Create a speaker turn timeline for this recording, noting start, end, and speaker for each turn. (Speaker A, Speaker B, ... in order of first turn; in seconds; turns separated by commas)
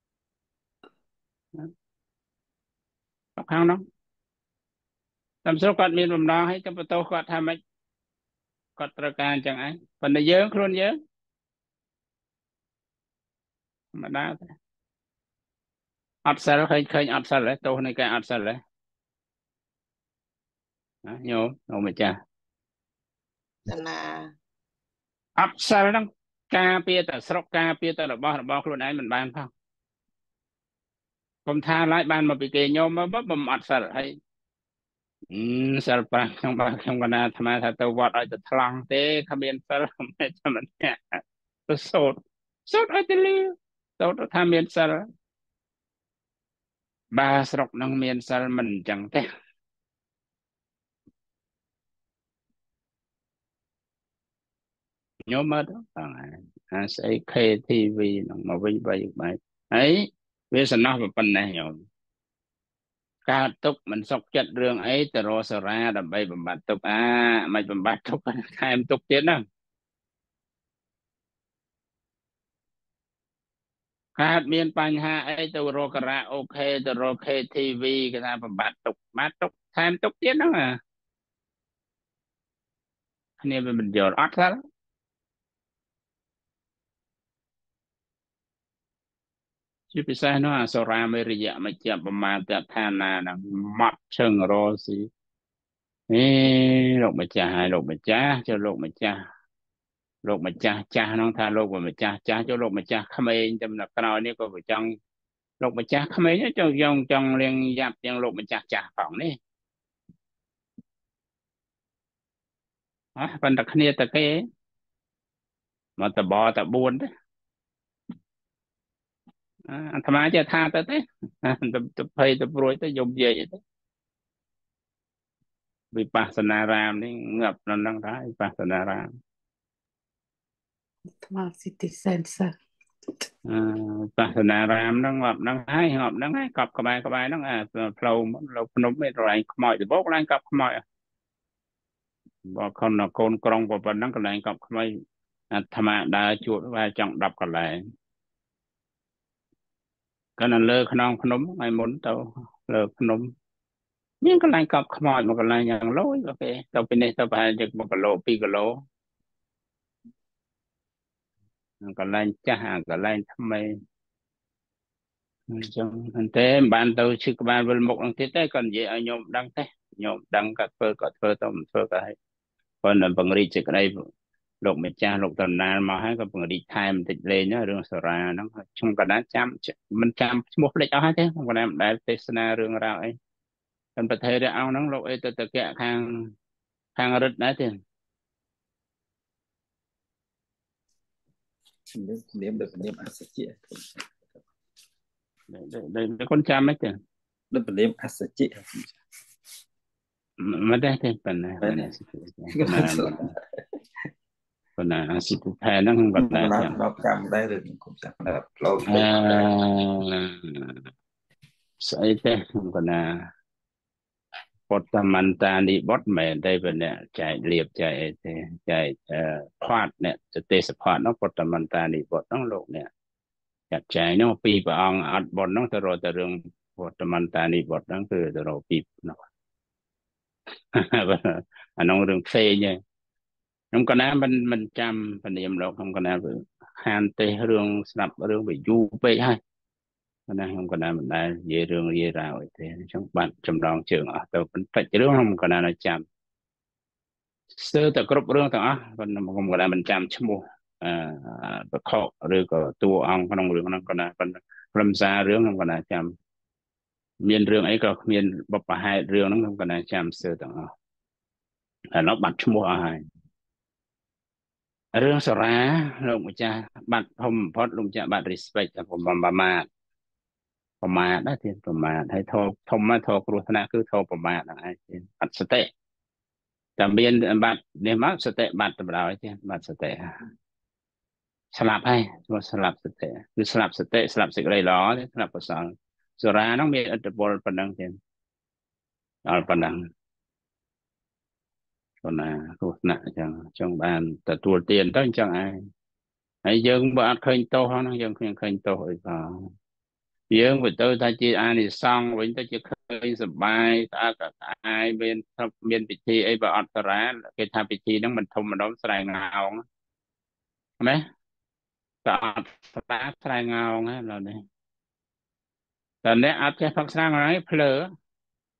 Speaker A: 3.4-3.8, Speaker A: 5.4-7.6, Speaker A: 8.8-10.9, Speaker A: 13.9-14.5, Speaker A: 16.2-18.6, Speaker A: 21.0-22.1, Speaker B: 23.7-24.3, Speaker A: 25.4-29.5, Speaker A: 31.4-34.1, Speaker A: 35.3-45.0, Speaker A: 47.1-49.2, Speaker A: 55.3-61.8, Speaker A: 63.3-69.4, Speaker A: 74.2-80.8, Speaker A: 83.4-84.6, Speaker A: 89.9-95.1, Speaker A: 96.1-99.2, Speaker A: 100.2-104.9, Speaker A: 105.6-109.4, Speaker A: 113.2-114.4, Speaker A: 116.0-117.1, Speaker A: 119.7-123.6, Speaker A: 125.9-129.1, Speaker B: 131.2-132.5, Speaker A: 133.5-140.8, Speaker A: 142.5-144.9, Speaker A: 145.5-147.8, Speaker A: 150.4-153.3, Speaker A: 154.2-158.8, Speaker A: 161.8-163.7, Speaker A: 165.5-172.2, Speaker A: 172.8-173.9, Speaker A: 174.6-183.2, Speaker A: 184.0-186.2, Speaker A: 187.0-187.7, Speaker C: 191.9-194.0, Speaker A: 195.5-196.9, Speaker C: 197.5-198.9, Speaker A: 200.4-203.2, Speaker C: 201.6-201.9, Speaker C: 202.5-203.4, Speaker A: 204.8-206.7, Speaker C: 206.2-209.5, Speaker A: 208.9-210.8, Speaker A: 211.8-213.1, Speaker A: 214.7-222.9, Speaker A: 223.7-229.2, Speaker A: 230.7-232.8, Speaker A: 233.7-239.4, Speaker A: 240.3-246.0, Speaker A: 247.5-256.1, Speaker A: 257.2-260.7, Speaker A: 261.9-263.0, Speaker A: 264.9-269.7, Speaker A: 270.8-275.7, Speaker A: 276.8-280.1, Speaker A: 281.5-288.0, Speaker A: 289.2-289.8, Speaker A: 292.0-295.5, Speaker A: 296.4-299.4, Speaker A: 300.3-309.6, Speaker A: 312.0-314.4, Speaker A: 316.0-317.9